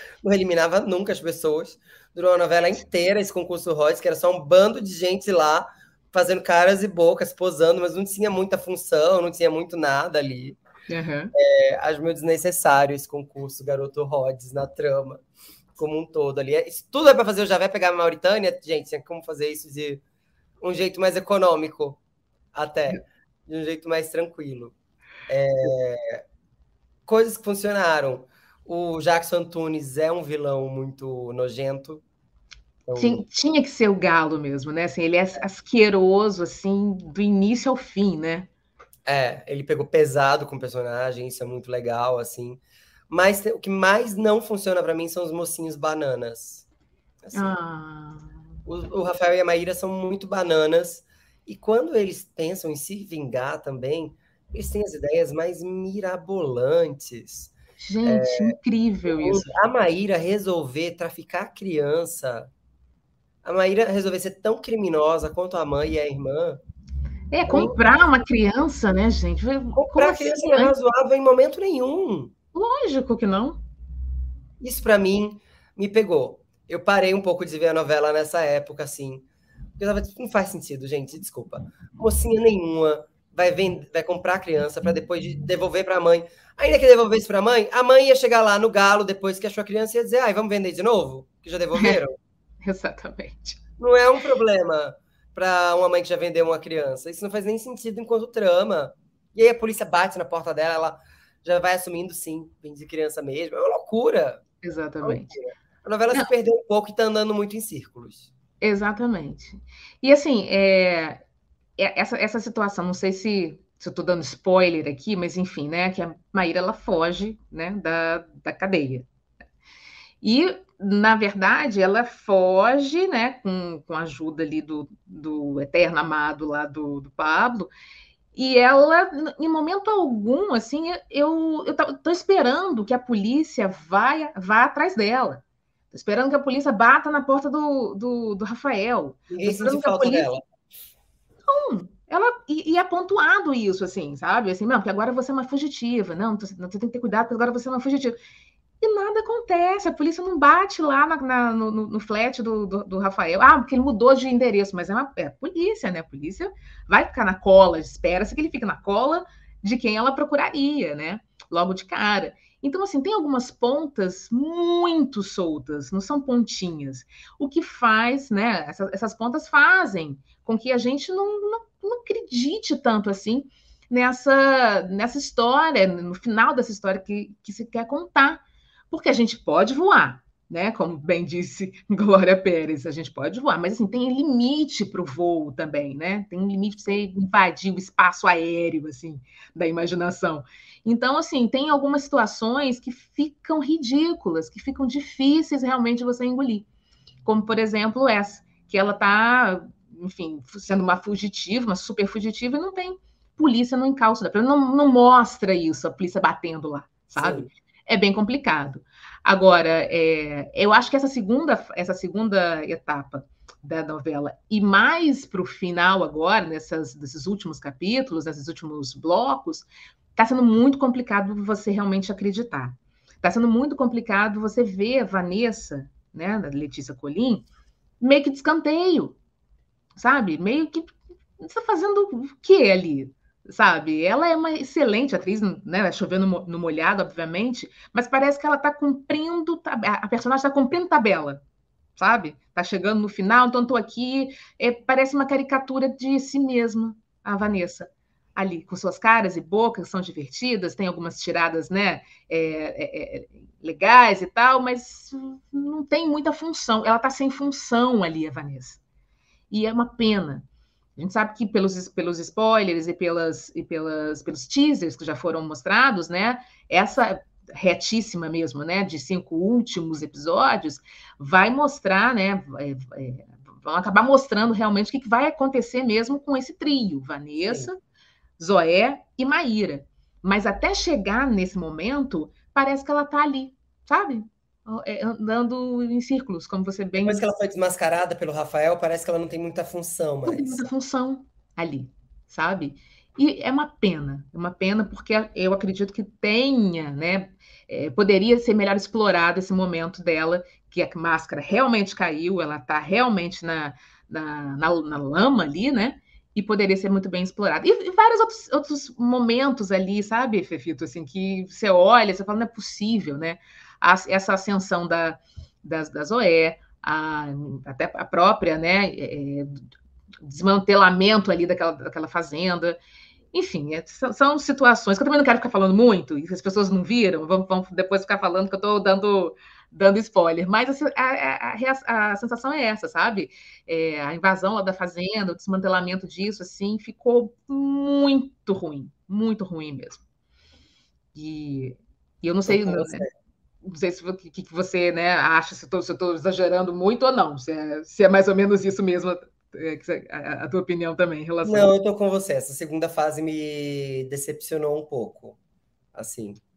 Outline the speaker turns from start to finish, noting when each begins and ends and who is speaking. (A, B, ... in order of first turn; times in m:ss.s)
0:00.2-0:10.6 A
0:10.9-0:11.3 B
0:11.3-0:15.2 A
0:15.8-0:20.0 A
0:20.6-0:22.0 A
0:22.5-0:24.7 A
0:25.3-0:26.2 A
0:27.1-0:32.0 A
0:32.8-0:33.2 A
0:33.0-0:38.5 B
0:39.0-0:46.6 A
0:47.2-0:47.5 A
0:47.3-0:48.3 B
0:48.6-0:57.5 A
0:57.8-0:59.5 B
0:58.0-1:02.5 A
1:03.4-1:06.6 A
1:07.3-1:10.7 B
1:07.5-1:07.8 A
1:09.7-1:12.3 A
1:12.5-1:13.6 B
1:14.6-1:19.2 A
1:19.8-1:32.2 A
1:32.6-1:33.6 B
1:33.8-1:44.4 A
1:44.6-1:45.4 B
1:45.0-1:48.3 A
1:48.6-1:51.2 B
1:51.8-1:59.0 B
2:00.2-2:07.7 B
2:08.3-2:20.3 B
2:19.3-2:20.4 A
2:21.4-2:28.2 B
2:28.8-3:16.7 B
3:17.2-3:47.5 B
3:27.2-3:27.5 A
3:48.0-3:49.2 B
3:50.0-4:01.4 B
4:02.0-4:18.8 B
4:19.5-4:20.4 B
4:21.0-4:37.8 B
4:38.4-4:47.2 B
4:47.0-4:50.6 A
4:50.2-5:19.6 B
5:20.2-5:22.8 B
5:23.3-5:40.0 B
5:41.1-5:43.0 B
5:42.5-5:43.1 A
5:43.6-5:51.7 B
5:51.4-5:55.4 A
5:55.9-5:56.4 A